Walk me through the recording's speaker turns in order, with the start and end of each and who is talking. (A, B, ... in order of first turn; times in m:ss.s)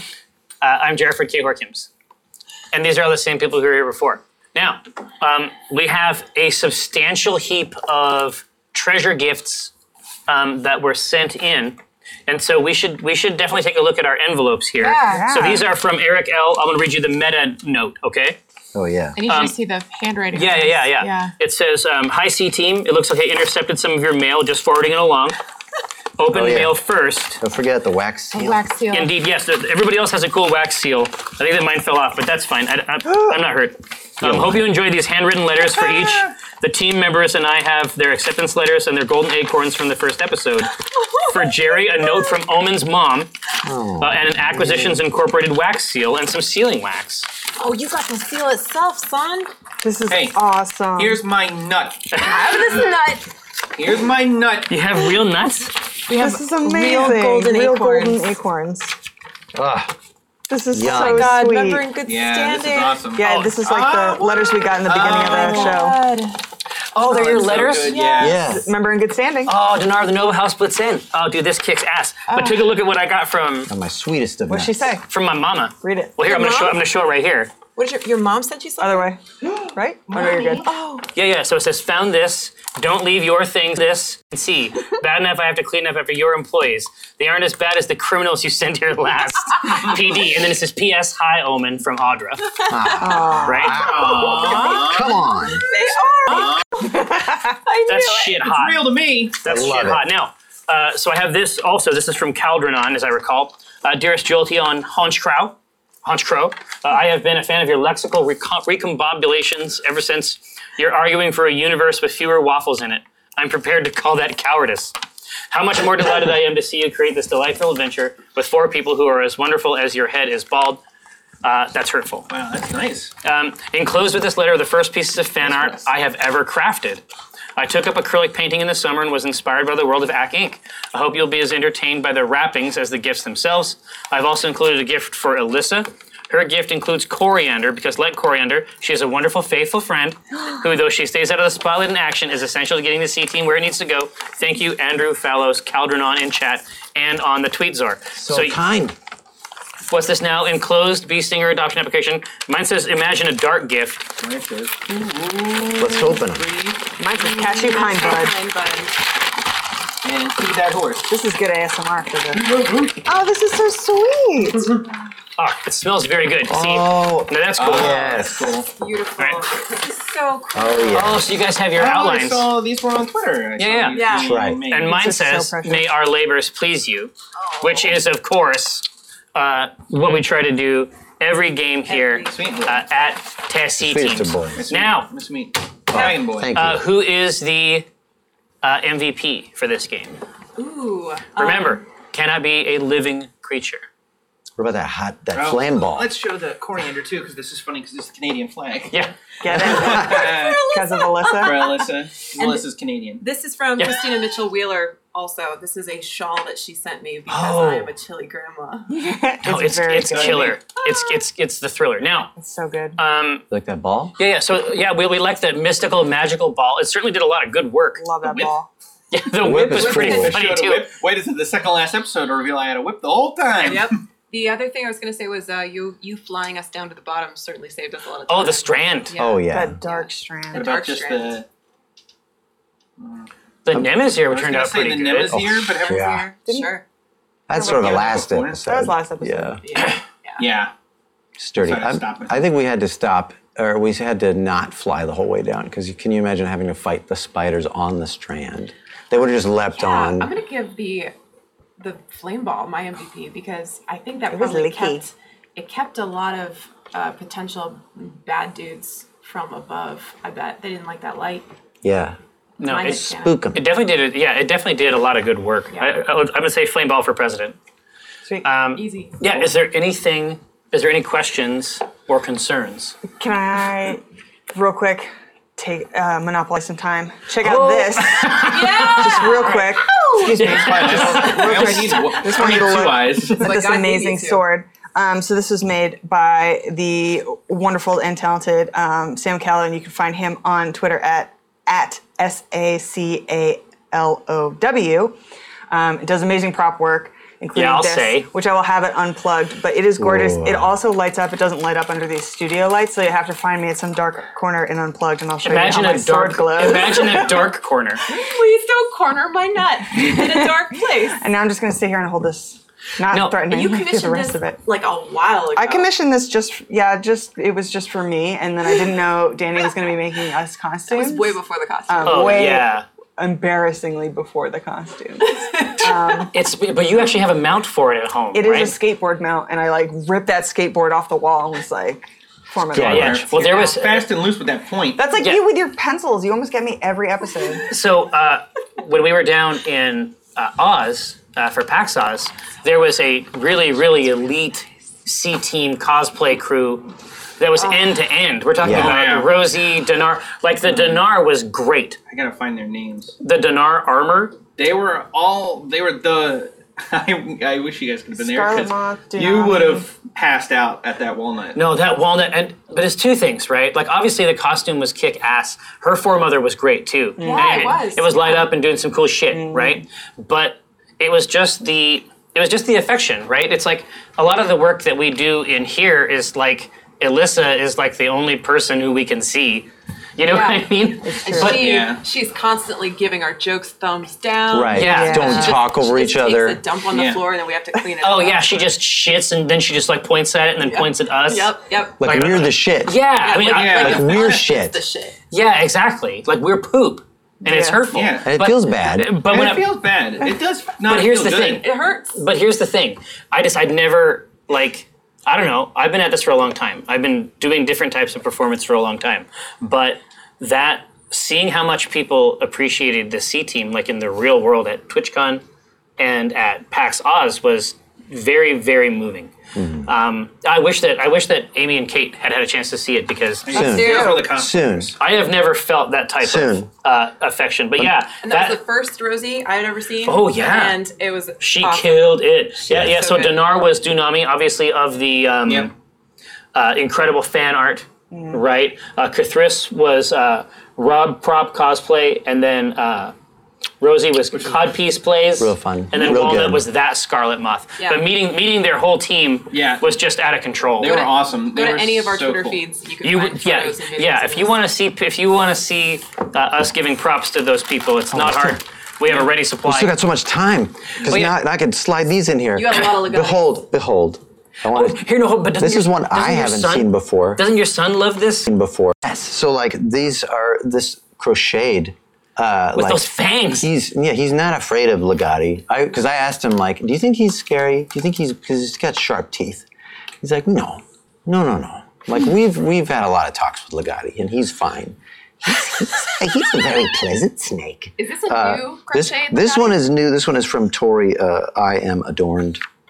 0:00.6-0:01.9 A
0:02.7-0:09.7 A
0:10.3-0:18.4 A
0:14.8-0:15.4 B
0:15.0-0:15.7 C
0:18.7-0:19.2 D
0:19.1-0:21.3 B
0:19.3-0:19.5 A
0:20.3-0:25.4 A
0:26.2-0:27.4 A
0:26.3-0:26.8 D
0:27.4-0:28.6 D
0:28.3-0:29.1 B
0:28.9-0:43.3 A
0:34.2-0:34.7 D
0:43.6-0:45.0 D
0:44.0-0:47.3 A
0:47.6-0:49.5 B
0:49.8-0:51.2 C
0:50.1-0:50.4 E
0:51.0-0:52.2 E
0:52.1-0:52.4 A
0:52.2-0:53.3 B
0:53.7-0:54.7 E
0:54.7-0:55.8 A
0:56.1-0:58.3 B
0:56.1-0:59.0 C
0:59.5-0:59.9 D
1:00.5-1:01.9 C
1:00.7-1:01.3 D
1:00.8-1:03.0 B
1:02.0-1:05.3 E
1:03.1-1:06.0 C
1:03.3-1:03.5 A
1:04.9-1:06.4 B
1:05.4-1:05.8 A
1:06.9-1:07.9 A
1:07.1-1:08.4 E
1:07.7-1:08.4 B
1:08.2-1:09.5 C
1:08.2-1:08.7 D
1:09.4-1:13.7 A
1:12.3-1:12.6 B
1:13.7-1:14.8 D
1:14.5-1:15.0 C
1:15.1-1:17.5 A
1:15.8-1:16.2 C
1:16.2-1:16.8 B
1:17.8-1:19.1 B
1:18.8-1:20.7 C
1:20.1-1:20.7 E
1:20.6-1:21.1 B
1:21.1-1:32.7 A
1:32.7-1:35.6 D
1:33.0-1:34.8 C
1:33.4-1:33.8 A
1:33.9-1:35.0 E
1:34.0-1:38.4 B
1:37.9-1:54.9 A
1:38.5-1:39.4 E
1:39.4-1:40.0 D
1:55.5-2:00.8 A
2:01.4-2:02.3 A
2:02.3-2:03.1 E
2:03.2-2:07.0 A
2:07.6-2:28.6 A
2:28.2-2:28.9 D
2:29.9-2:34.1 A
2:34.2-2:35.7 E
2:35.8-2:36.5 D
2:36.3-2:36.8 E
2:36.9-2:38.3 C
2:37.2-2:39.0 B
2:40.0-2:41.1 E
2:41.1-2:44.8 C
2:42.3-2:43.0 E
2:45.4-2:48.0 A
2:46.5-2:48.6 D
2:47.6-2:48.7 E
2:48.7-2:51.1 B
2:50.5-2:51.2 D
2:50.9-2:52.5 A
2:51.8-2:54.9 E
2:53.6-2:54.0 A
2:53.9-2:54.4 B
2:54.2-2:54.6 D
2:54.6-3:05.1 A
2:54.8-2:55.9 C
2:57.4-2:58.0 B
3:01.9-3:02.5 B
3:02.3-3:02.8 E
3:03.8-3:04.7 D
3:04.5-3:06.5 E
3:05.9-3:06.8 D
3:06.5-3:07.9 A
3:08.6-3:10.2 A
3:10.6-3:11.8 B
3:11.3-3:13.8 A
3:14.6-3:16.1 D
3:15.3-3:18.9 E
3:19.4-3:21.8 C
3:19.6-3:20.6 E
3:19.6-3:21.8 B
3:21.5-3:23.2 E
3:22.4-3:22.6 B
3:23.2-3:28.9 B
3:23.8-3:24.2 A
3:27.3-3:27.9 A
3:28.9-3:30.6 C
3:29.4-3:32.3 A
3:32.4-3:33.0 C
3:33.0-3:33.4 A
3:33.5-3:34.2 D
3:34.2-3:38.1 A
3:38.0-3:38.7 C
3:38.2-3:38.5 E
3:39.1-3:40.9 A
3:39.4-3:40.4 D
3:39.8-3:40.3 B
3:40.0-3:44.0 E
3:43.6-3:51.4 B
3:48.3-3:49.1 A
3:49.2-3:49.8 D
3:49.5-3:50.7 C
3:50.5-3:51.5 E
3:53.0-3:53.3 E
3:53.6-3:55.3 A
3:54.3-3:56.1 E
3:55.3-3:56.3 D
3:55.9-3:56.8 B
3:56.5-3:56.7 C
3:57.5-3:59.6 D
3:57.5-3:59.9 C
3:57.6-3:58.6 E
3:59.6-4:00.5 B
4:00.4-4:00.7 E
4:01.4-4:10.3 D
4:01.6-4:02.5 E
4:09.8-4:11.1 B
4:11.8-4:21.5 B
4:14.3-4:15.1 C
4:21.8-4:22.2 D
4:22.6-4:27.6 A
4:22.6-4:23.4 B
4:23.0-4:23.6 D
4:28.4-4:33.0 A
4:28.8-4:29.2 B
4:33.2-4:34.0 C
4:34.5-4:55.2 C
4:37.4-4:39.5 A
4:38.4-4:39.7 B
4:40.2-4:41.9 A
4:40.6-4:43.4 E
4:43.4-4:44.4 B
4:55.7-5:07.3 C
4:57.5-4:58.3 A
5:00.0-5:00.7 D
5:05.4-5:08.0 A
5:06.6-5:07.3 B
5:08.1-5:11.2 B
5:09.9-5:14.6 C
5:13.1-5:13.4 A
5:13.5-5:15.9 B
5:15.6-5:26.3 C
5:20.9-5:22.5 B
5:22.0-5:22.8 A
5:26.2-5:28.7 A
5:28.3-5:33.6 C
5:32.7-5:33.2 D
5:32.8-5:34.0 A
5:33.0-5:35.1 E
5:35.0-5:37.7 C
5:35.1-5:35.4 A
5:37.7-5:52.0 A
5:48.6-5:49.0 D
5:48.7-5:49.3 E
5:52.1-5:53.1 E
5:53.2-5:54.4 A
5:54.6-6:01.6 E
5:58.1-5:59.9 C
6:01.6-6:21.6 A
6:07.2-6:07.9 C
6:07.2-6:08.5 B
6:09.3-6:09.8 C
6:20.2-6:20.7 B
6:21.0-6:21.9 C
6:21.2-6:28.7 B
6:21.6-6:22.0 E
6:24.5-6:26.6 D
6:24.7-6:25.4 A
6:24.8-6:25.6 C
6:27.0-6:27.2 E
6:28.0-6:34.0 A
6:30.6-6:32.0 B
6:32.0-6:33.0 D
6:33.2-6:35.2 B
6:33.5-6:34.4 E
6:33.8-6:34.8 D
6:35.3-6:39.7 A
6:37.4-6:37.9 C
6:37.9-6:38.2 E
6:38.2-6:39.1 D
6:39.3-6:41.6 E
6:40.8-6:55.4 A
6:41.5-6:42.2 B
6:56.0-6:59.3 A
6:59.6-6:59.9 D
6:59.8-7:03.6 A
7:03.4-7:04.9 E
7:03.5-7:04.3 B
7:03.5-7:04.9 D
7:05.0-7:08.6 A
7:06.2-7:06.7 D
7:08.2-7:13.4 B
7:10.0-7:10.8 A
7:11.4-7:15.7 A
7:12.7-7:13.0 D
7:16.5-7:23.1 A
7:18.1-7:18.4 C
7:23.8-7:31.0 A
7:25.4-7:26.6 D
7:27.8-7:28.0 B
7:29.5-7:29.9 E
7:30.8-7:32.6 E
7:30.8-7:34.6 B
7:33.0-7:39.9 A
7:38.1-7:38.6 D
7:39.6-7:47.4 D
7:41.1-7:41.3 A
7:42.6-7:43.5 B
7:44.7-7:48.5 A
7:48.5-7:53.1 D
7:52.8-7:53.7 A
7:53.6-7:59.6 D
8:00.2-8:12.6 D
8:08.0-8:09.8 B